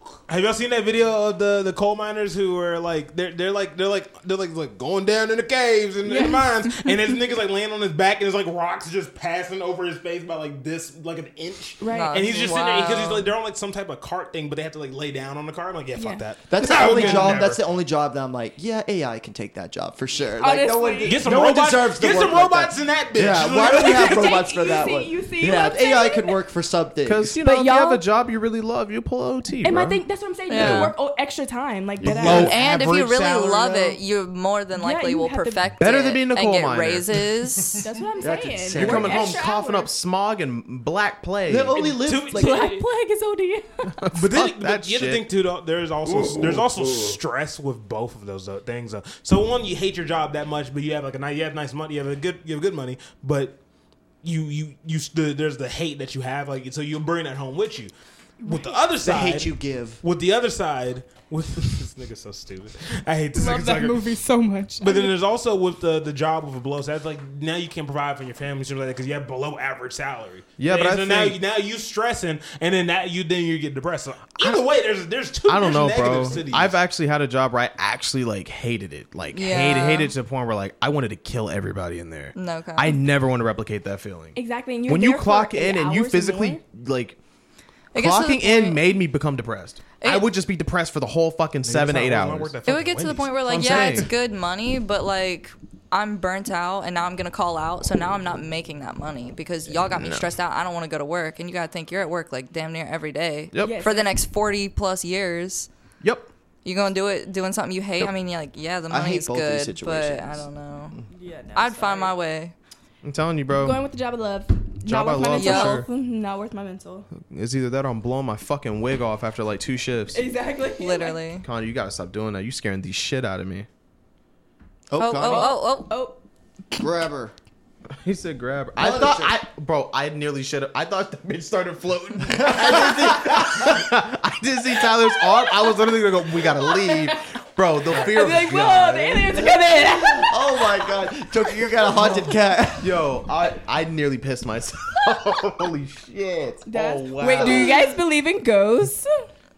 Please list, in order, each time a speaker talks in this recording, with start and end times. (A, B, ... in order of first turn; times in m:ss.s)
0:00.3-0:17.6 A
0:06.0-0:06.9 B
0:11.8-0:12.5 B
0:11.9-0:13.3 C
0:16.0-0:17.4 B
0:16.5-0:27.3 D
0:20.4-0:21.3 B
0:21.0-0:24.5 A
0:23.7-0:26.4 B
0:27.0-0:30.0 E
0:27.3-0:28.0 B
0:29.6-0:32.5 B
0:30.5-0:30.9 C
0:30.5-0:31.0 E
0:32.0-0:32.5 E
0:32.0-0:34.0 A
0:32.2-0:37.8 C
0:34.7-0:35.6 B
0:35.8-0:37.3 E
0:37.8-0:39.9 B
0:38.2-0:39.3 D
0:38.7-0:41.8 E
0:41.4-0:42.8 D
0:41.8-0:42.9 A
0:42.2-0:43.9 B
0:44.0-0:45.3 E
0:44.1-0:53.6 A
0:46.1-0:47.2 E
0:54.2-1:04.0 A
0:58.4-0:58.8 B
0:59.0-1:00.0 D
1:03.3-1:05.2 B
1:04.8-1:16.8 A
1:10.6-1:11.4 E
1:15.5-1:27.2 E
1:19.3-1:20.1 C
1:22.4-1:23.0 C
1:24.3-1:26.6 B
1:27.9-1:28.8 C
1:27.9-1:32.5 E
1:30.0-1:30.3 C
1:31.6-1:34.1 A
1:32.6-1:45.7 C
1:33.4-1:34.1 E
1:39.7-1:40.3 E
1:43.5-1:43.8 E
1:43.6-1:44.2 B
1:46.0-1:46.3 E
1:46.6-1:51.0 C
1:48.9-1:51.0 D
1:51.1-1:52.2 B
1:51.5-1:52.5 C
1:53.0-1:53.8 E
1:53.5-1:57.1 B
1:54.8-1:55.9 E
1:55.3-1:55.8 C
1:57.2-2:00.2 E
2:00.1-2:01.2 B
2:00.8-2:01.4 C
2:01.4-2:03.7 E
2:04.9-2:05.6 D
2:05.0-2:05.9 C
2:05.2-2:06.2 B
2:06.8-2:07.3 D
2:08.0-2:19.6 E
2:08.8-2:09.4 D
2:12.3-2:13.9 D
2:15.1-2:15.7 B
2:16.5-2:17.2 B
2:17.9-2:18.2 A
2:18.0-2:20.6 B
2:19.4-2:23.0 D
2:22.8-2:27.8 E
2:26.6-2:29.3 B
2:26.8-2:27.8 D